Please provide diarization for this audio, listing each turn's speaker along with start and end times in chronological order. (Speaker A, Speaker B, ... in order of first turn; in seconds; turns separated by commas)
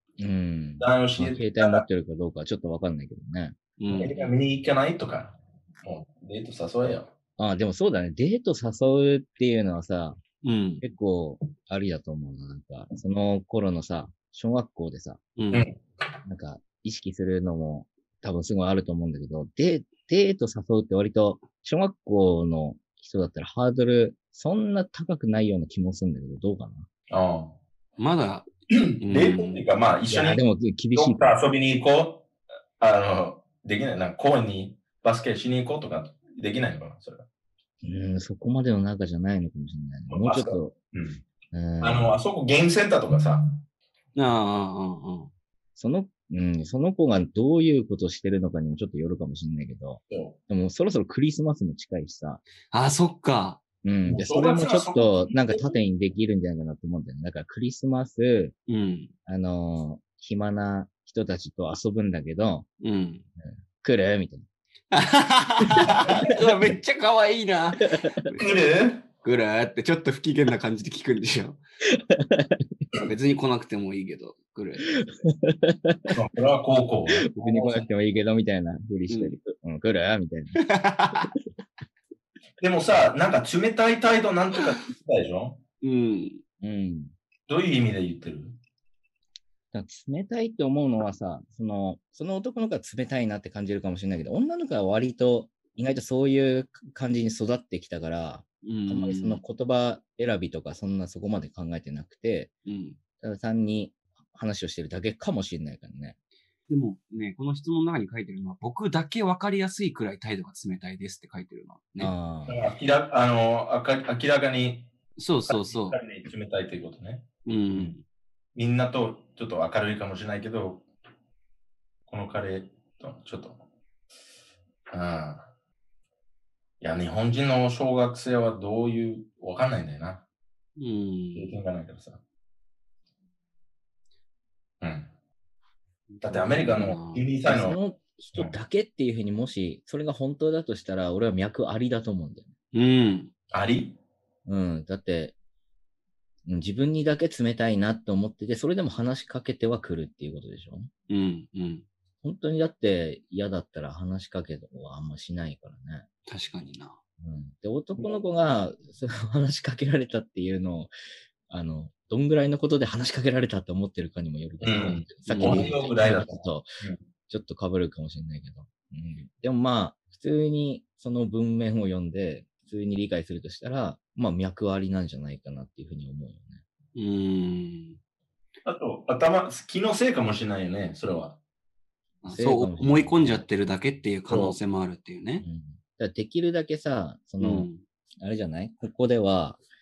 Speaker A: 0.2-3.6, Speaker B: 0.8-1.8, Speaker C: 3.8-4.3, Speaker B: 4.0-7.1, Speaker A: 7.4-10.2, Speaker C: 10.4-10.8, Speaker A: 10.8-15.2, Speaker C: 15.4-15.7, Speaker B: 15.5-15.8, Speaker A: 16.2-26.9, Speaker B: 27.1-27.6, Speaker C: 28.0-28.5, Speaker B: 28.7-30.4, Speaker C: 29.0-29.6, Speaker A: 30.1-31.3, Speaker B: 30.9-32.2, Speaker B: 32.8-37.2, Speaker A: 37.8-40.7, Speaker B: 40.1-41.2, Speaker A: 41.5-42.1, Speaker B: 41.8-43.6, Speaker C: 44.1-45.3, Speaker A: 45.8-52.4, Speaker B: 50.1-50.4, Speaker C: 52.7-53.6, Speaker A: 53.8-58.5, Speaker B: 54.1-55.8, Speaker C: 58.7-59.1, Speaker A: 59.3-62.7, Speaker C: 62.8-63.3, Speaker A: 63.8-64.5, Speaker C: 64.9-68.4, Speaker A: 65.8-66.4, Speaker B: 68.4-69.1, Speaker C: 69.2-71.6, Speaker A: 71.9-72.7, Speaker C: 73.0-74.9, Speaker A: 75.0-76.2, Speaker B: 76.1-77.3, Speaker A: 77.1-80.6, Speaker C: 77.4-77.8, Speaker C: 79.1-79.4, Speaker C: 80.6-81.3, Speaker B: 82.6-85.6, Speaker C: 85.8-86.4, Speaker A: 86.6-87.1, Speaker B: 87.5-88.6, Speaker A: 89.7-102.5, Speaker C: 98.6-99.4, Speaker C: 102.7-103.0, Speaker A: 103.2-106.2, Speaker C: 106.7-112.1, Speaker A: 112.0-112.6, Speaker B: 112.5-114.9, Speaker C: 115.2-116.0, Speaker B: 115.5-117.2, Speaker C: 117.5-118.0, Speaker B: 118.5-120.9, Speaker B: 122.1-123.6, Speaker B: 124.9-125.5, Speaker B: 126.8-130.2, Speaker C: 130.8-131.6, Speaker B: 131.3-132.2, Speaker B: 134.8-135.1, Speaker C: 136.1-137.2, Speaker B: 136.2-137.8, Speaker A: 137.4-142.5, Speaker C: 142.7-143.3, Speaker B: 143.5-144.0, Speaker A: 144.5-145.3, Speaker A: 146.5-150.9, Speaker C: 151.1-151.9, Speaker A: 152.2-156.1, Speaker C: 156.3-157.0, Speaker A: 157.2-160.9, Speaker A: 161.5-166.7, Speaker B: 164.6-167.0, Speaker C: 165.3-165.8, Speaker A: 167.3-176.6, Speaker C: 177.0-178.0, Speaker B: 178.7-181.4, Speaker C: 182.2-185.5, Speaker A: 182.3-183.4, Speaker B: 184.3-184.6, Speaker A: 185.4-187.7, Speaker C: 187.4-187.8, Speaker A: 188.2-189.6